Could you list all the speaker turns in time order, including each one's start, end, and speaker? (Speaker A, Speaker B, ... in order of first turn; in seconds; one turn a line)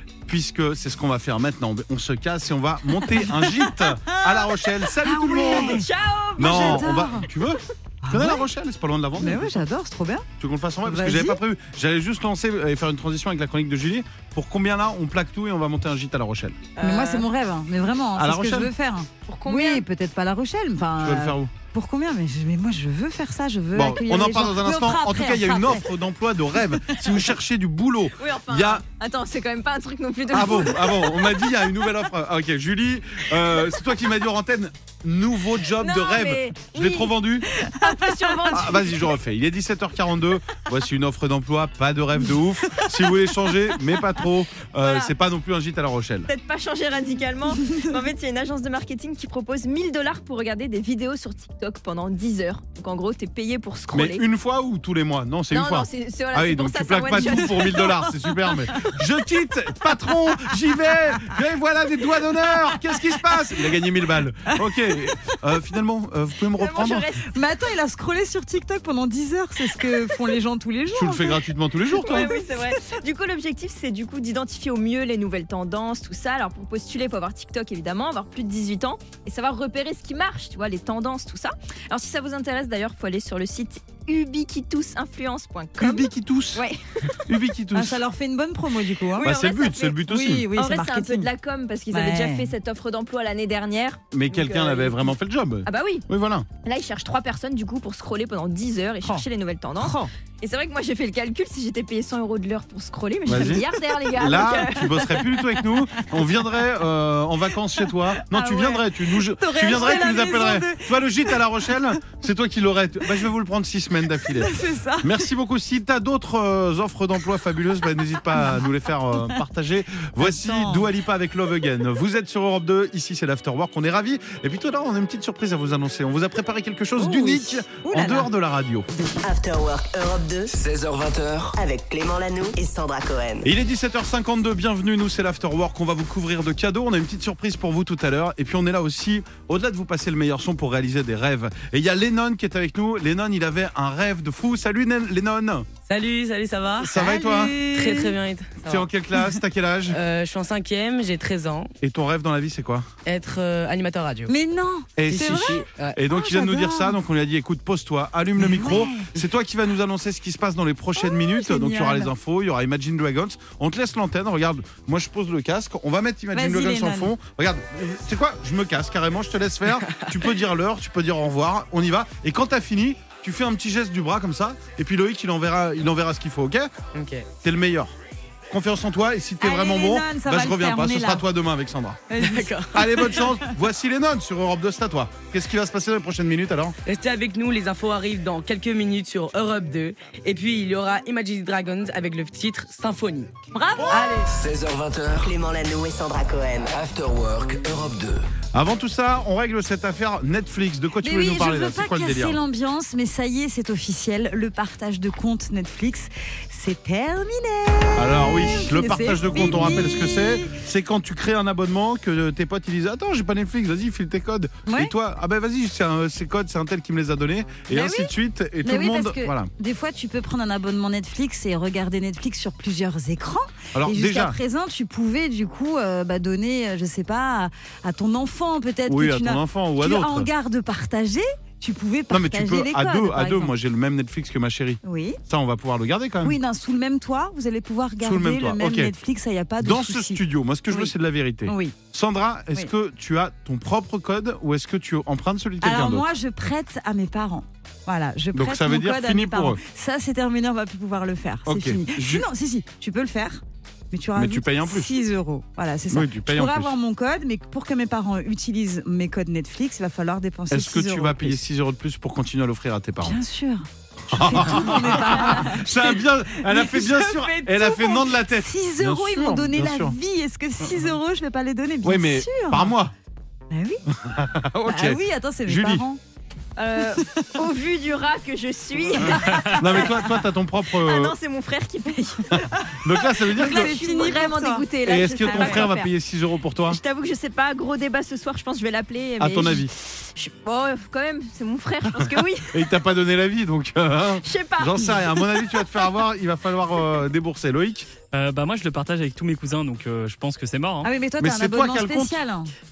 Speaker A: 0.2-5.8
Speaker B: 3.1-7.3
Speaker C: 5.3-7.1
Speaker A: 6.4-9.6
Speaker B: 8.0-8.4
Speaker B: 9.2-10.2
Speaker A: 10.4-16.7
Speaker B: 10.8-11.4
Speaker C: 16.8-17.3
Speaker B: 16.8-25.9
Speaker A: 18.2-18.7
Speaker C: 19.2-19.8
Speaker A: 21.0-21.5
Speaker A: 23.7-28.8
Speaker C: 28.2-31.9
Speaker A: 30.3-37.5
Speaker C: 33.5-33.8
Speaker C: 35.7-39.1
Speaker B: 37.6-38.7
Speaker A: 38.5-46.3
Speaker C: 44.8-45.1
Speaker C: 46.3-54.2
Speaker A: 53.9-67.1
Speaker C: 55.5-58.1
Speaker B: 57.2-57.5
Speaker B: 64.5-65.2
Speaker C: 66.5-67.2
Speaker B: 67.3-71.4
Speaker A: 70.9-72.3
Speaker C: 71.9-87.4
Speaker A: 85.8-86.6
Speaker A: 87.2-88.0
Speaker B: 87.7-89.3
Speaker C: 89.1-95.1
Speaker A: 89.2-90.5
Speaker B: 90.0-91.3
Speaker B: 91.9-92.5
Speaker A: 94.1-96.5
Speaker C: 95.6-96.0
Speaker C: 96.6-105.3
Speaker B: 99.8-100.1
Speaker A: 103.3-128.9
Speaker B: 104.8-106.0
Speaker B: 108.1-111.4
Speaker B: 114.2-115.2
Speaker B: 118.3-118.7
Speaker B: 120.2-120.9
Speaker B: 127.0-128.3
Speaker D: 129.2-130.5
Speaker E: 130.5-131.6
Speaker D: 131.6-133.5
Speaker A: 133.4-145.7
Speaker F: 145.8-146.9
Speaker B: 146.8-148.1
Speaker A: 146.8-147.6
Speaker F: 147.6-148.9
Speaker A: 148.6-150.0
Speaker F: 149.9-151.7
Speaker A: 151.8-152.9
Speaker F: 153.0-154.3
Speaker B: 154.3-157.0
Speaker A: 155.0-176.8
Speaker F: 155.0-156.0
Speaker B: 158.4-159.1
Speaker B: 161.0-162.1
Speaker B: 166.3-167.1
Speaker F: 169.8-170.2
Speaker F: 176.9-177.3
Speaker A: 177.4-177.9
Speaker A: 178.5-182.1
Speaker B: 179.4-181.2
Speaker B: 182.1-183.5
Speaker F: 182.2-183.3
Speaker A: 182.7-186.8
Speaker F: 186.8-193.4
Speaker B: 193.5-194.3
Speaker E: 194.3-195.3
Speaker D: 195.2-196.8
Speaker E: 196.7-198.2
Speaker A: 198.5-202.4
Speaker B: 201.0-210.5
Speaker A: 208.0-219.5
Speaker B: 214.7-214.9
Speaker B: 217.7-233.5
Speaker A: 223.8-224.4
Speaker A: 228.9-230.3
Speaker A: 232.1-236.4
Speaker B: 234.8-235.2
Speaker B: 236.2-240.9
Speaker A: 238.0-238.9
Speaker A: 239.6-246.1
Speaker B: 241.4-241.8
Speaker B: 245.6-261.4
Speaker A: 248.3-249.6
Speaker A: 251.5-252.2
Speaker A: 254.2-255.0
Speaker A: 255.9-256.7
Speaker A: 260.5-263.2
Speaker B: 263.0-272.7
Speaker A: 264.1-270.0
Speaker A: 271.8-272.9
Speaker B: 273.5-273.8
Speaker A: 273.9-275.8
Speaker B: 274.6-276.0
Speaker C: 276.6-282.4
Speaker A: 279.0-281.1
Speaker B: 279.0-280.1
Speaker B: 282.3-284.6
Speaker A: 282.8-283.7
Speaker C: 283.0-285.9
Speaker A: 284.8-286.8
Speaker B: 285.2-285.7
Speaker C: 286.7-292.8
Speaker A: 289.2-289.7
Speaker A: 292.0-297.9
Speaker C: 294.2-296.0
Speaker G: 298.1-300.9
Speaker B: 300.8-302.5
Speaker A: 301.2-302.2